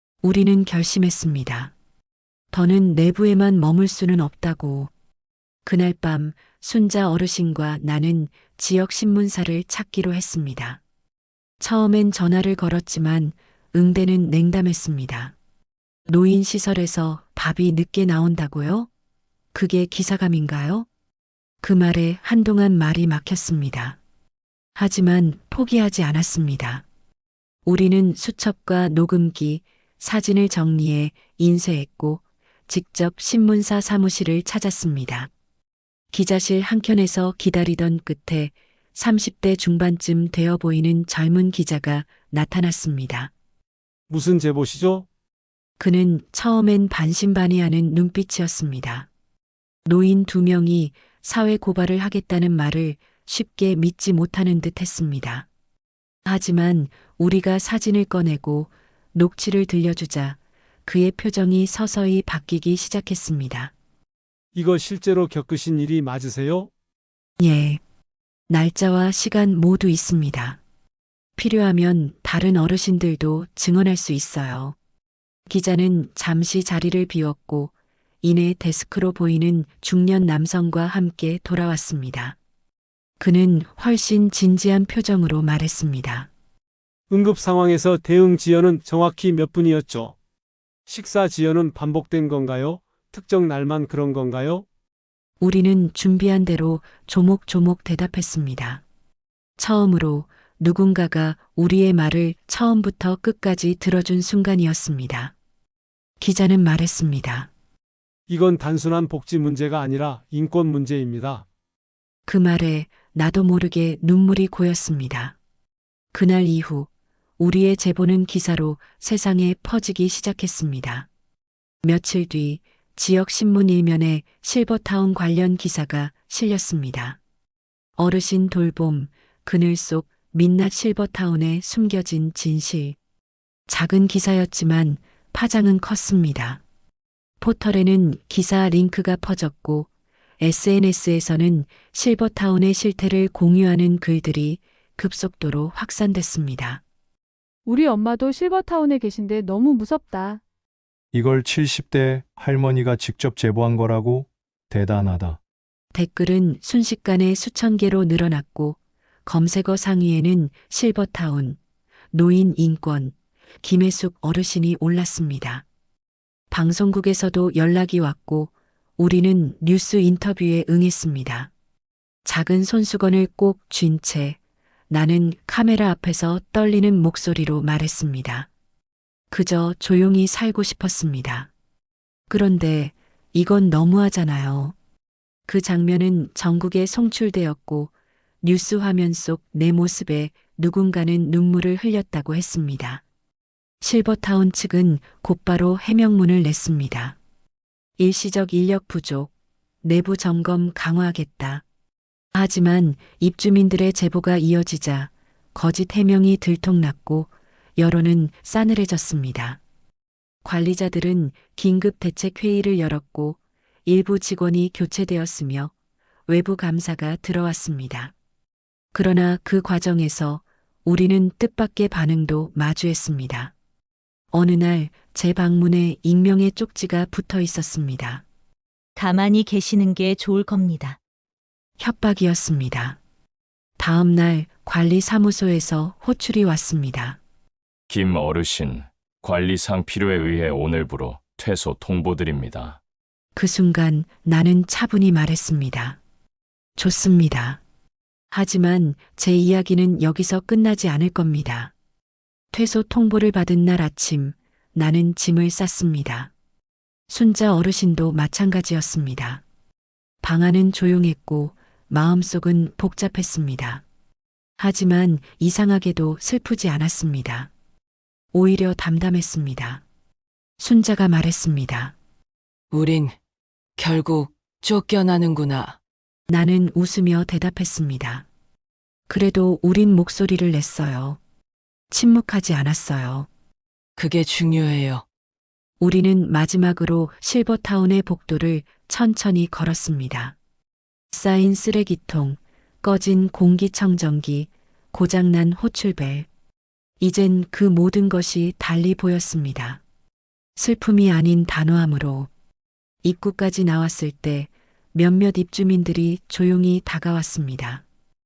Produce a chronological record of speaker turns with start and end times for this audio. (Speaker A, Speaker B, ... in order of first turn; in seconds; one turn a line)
Speaker A: 0.2-1.7
Speaker A: 2.5-4.9
Speaker A: 5.7-10.8
Speaker A: 11.6-15.3
Speaker A: 16.1-18.9
Speaker A: 19.5-20.9
Speaker A: 21.6-24.0
Speaker A: 24.8-26.8
Speaker A: 27.7-35.3
Speaker A: 36.1-43.3
Speaker B: 44.1-45.1
Speaker A: 45.8-49.1
Speaker A: 49.9-55.5
Speaker A: 56.2-63.7
Speaker B: 64.5-66.7
Speaker A: 67.4-67.8
Speaker A: 68.5-70.6
Speaker A: 71.4-74.8
Speaker A: 75.5-82.4
Speaker A: 83.2-86.3
Speaker B: 87.1-90.2
Speaker B: 90.9-94.7
Speaker A: 95.4-98.8
Speaker A: 99.6-105.3
Speaker A: 106.2-107.5
Speaker B: 108.3-111.5
Speaker A: 112.2-115.4
Speaker A: 116.1-121.1
Speaker A: 121.8-127.2
Speaker A: 128.0-133.0
Speaker A: 133.7-136.6
Speaker A: 137.4-139.9
Speaker A: 140.4-146.8
Speaker C: 147.7-150.4
Speaker D: 151.1-155.4
Speaker A: 155.9-161.6
Speaker A: 162.1-165.7
Speaker A: 166.5-171.5
Speaker A: 172.2-174.4
Speaker A: 174.9-178.5
Speaker A: 179.3-181.5
Speaker A: 182.3-184.8
Speaker A: 185.5-193.0
Speaker A: 193.8-197.2
Speaker A: 198.0-199.3
Speaker A: 199.8-201.6
Speaker A: 202.3-209.6
Speaker A: 210.4-215.7
Speaker A: 216.3-218.1
Speaker A: 218.9-223.5
Speaker A: 224.3-228.2
Speaker E: 229.0-231.0
Speaker A: 231.8-233.0
Speaker A: 233.8-237.2
Speaker F: 237.9-242.8
Speaker A: 243.3-246.0
Speaker A: 246.8-247.6
Speaker A: 248.3-251.7
Speaker A: 252.5-256.3
Speaker A: 257.1-259.4
Speaker A: 260.2-263.8
Speaker A: 264.6-267.5
Speaker A: 268.3-269.8
Speaker A: 270.6-271.9
Speaker G: 272.7-273.2
Speaker G: 273.8-275.8
Speaker A: 276.3-278.2
Speaker A: 279.1-281.2
Speaker A: 281.9-283.3
Speaker G: 284.0-285.0
Speaker A: 285.8-290.4
Speaker A: 291.1-296.3
Speaker A: 297.0-299.8
Speaker A: 300.6-302.3
Speaker A: 303.0-307.8